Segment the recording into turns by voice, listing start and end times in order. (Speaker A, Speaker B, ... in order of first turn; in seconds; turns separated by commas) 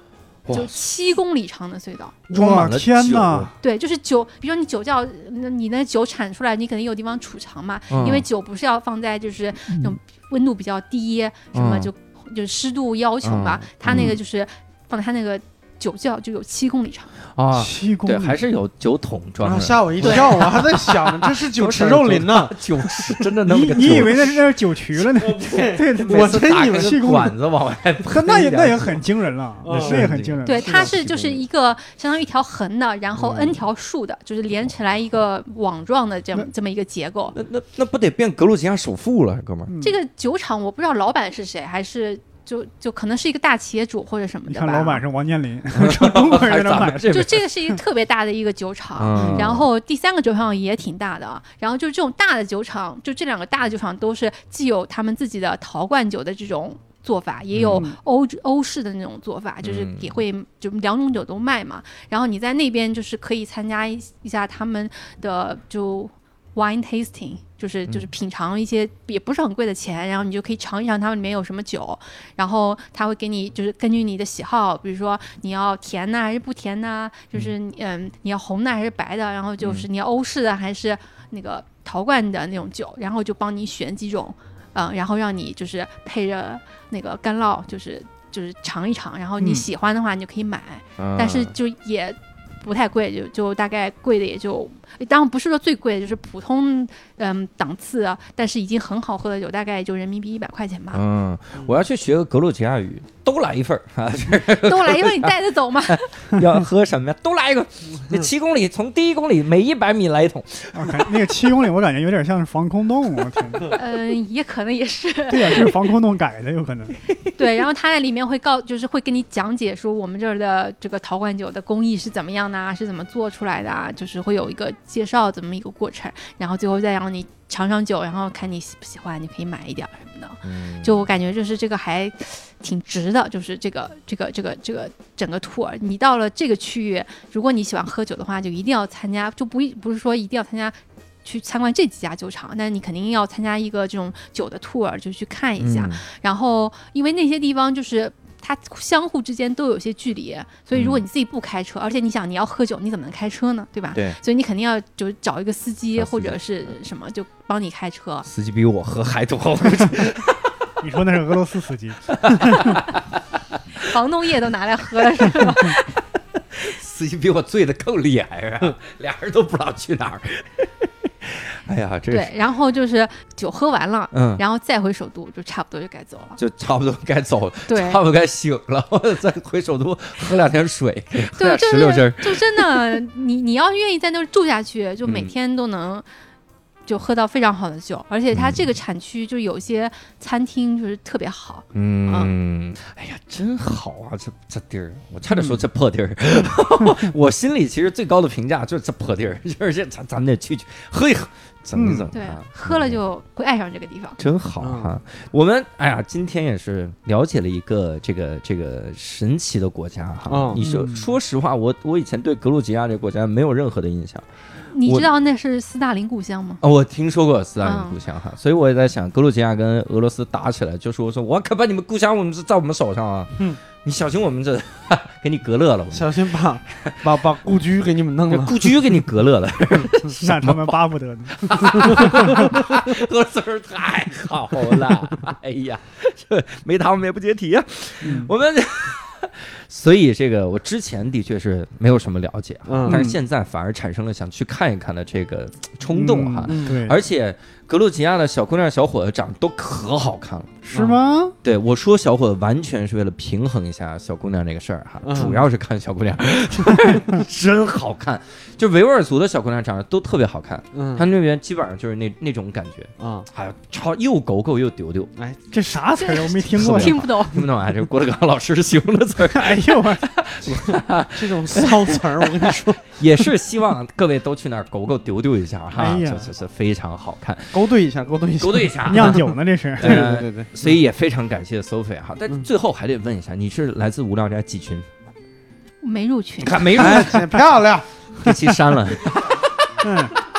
Speaker A: 0.5-0.8, Speaker B: 0.5-2.2, Speaker C: 2.3-3.5, Speaker A: 2.3-3.5, Speaker B: 3.6-17.1, Speaker A: 7.9-8.2, Speaker A: 11.5-11.9, Speaker A: 13.2-14.2, Speaker A: 17.4-24.4, Speaker C: 17.5-18.4, Speaker D: 19.4-23.2, Speaker B: 20.0-20.5, Speaker C: 23.5-27.4, Speaker A: 24.9-29.0, Speaker D: 25.2-27.1, Speaker C: 28.1-30.9, Speaker D: 29.6-30.1, Speaker A: 29.6-31.4, Speaker B: 30.4-37.4, Speaker A: 37.3-39.7, Speaker C: 39.7-40.0, Speaker B: 39.8-45.0, Speaker C: 44.5-47.8, Speaker A: 45.7-47.5, Speaker B: 47.1-101.0, Speaker A: 49.0-49.7, Speaker C: 49.1-49.5, Speaker A: 57.5-57.9, Speaker C: 57.7-58.0, Speaker A: 59.6-60.2, Speaker A: 79.6-79.9, Speaker C: 89.4-89.7, Speaker A: 91.0-91.5, Speaker A: 100.9-105.3, Speaker B: 104.5-106.1, Speaker A: 105.9-111.2, Speaker C: 106.3-106.6, Speaker C: 110.7-113.8, Speaker B: 113.7-115.7, Speaker C: 115.3-117.0, Speaker B: 117.4-158.3, Speaker A: 130.4-131.1, Speaker A: 145.6-146.0, Speaker A: 150.7-151.1, Speaker A: 153.9-154.2, Speaker A: 156.0-156.4, Speaker A: 158.2-160.5, Speaker C: 160.8-162.8, Speaker A: 162.1-163.9, Speaker B: 163.9-166.0, Speaker A: 165.3-165.8, Speaker A: 166.5-172.3, Speaker B: 172.1-176.4, Speaker A: 174.1-174.4, Speaker A: 176.4-183.0, Speaker B: 177.7-178.0, Speaker B: 181.4-186.1, Speaker A: 185.0-185.3, Speaker B: 186.9-192.3, Speaker A: 188.3-188.7, Speaker A: 191.7-203.0, Speaker C: 195.3-195.6, Speaker C: 201.7-202.1, Speaker B: 202.1-204.2, Speaker A: 204.2-214.2, Speaker D: 204.6-204.9, Speaker D: 210.3-210.6, Speaker C: 210.6-211.2, Speaker B: 214.7-216.6, Speaker A: 214.8-215.1, Speaker A: 216.6-226.9, Speaker B: 217.6-218.0, Speaker D: 225.9-228.8, Speaker A: 228.3-250.6, Speaker C: 230.1-232.6, Speaker C: 238.0-238.3, Speaker D: 242.7-243.1, Speaker C: 242.9-243.2, Speaker C: 245.9-247.0, Speaker D: 246.5-246.8, Speaker C: 250.7-251.3, Speaker D: 250.7-251.0, Speaker A: 251.4-265.1, Speaker D: 255.0-255.4, Speaker D: 260.7-261.1, Speaker D: 263.0-263.3, Speaker C: 265.5-267.0, Speaker B: 266.0-267.5, Speaker A: 266.5-277.7, Speaker C: 269.3-270.1, Speaker D: 270.5-272.9, Speaker C: 275.8-276.3, Speaker D: 277.5-279.2, Speaker A: 278.4-279.3, Speaker C: 278.9-280.1, Speaker A: 279.8-284.9, Speaker D: 279.8-280.8, Speaker B: 285.8-286.7, Speaker A: 286.4-287.4, Speaker D: 286.7-288.6, Speaker A: 288.2-289.5, Speaker D: 289.8-290.1, Speaker C: 289.8-290.1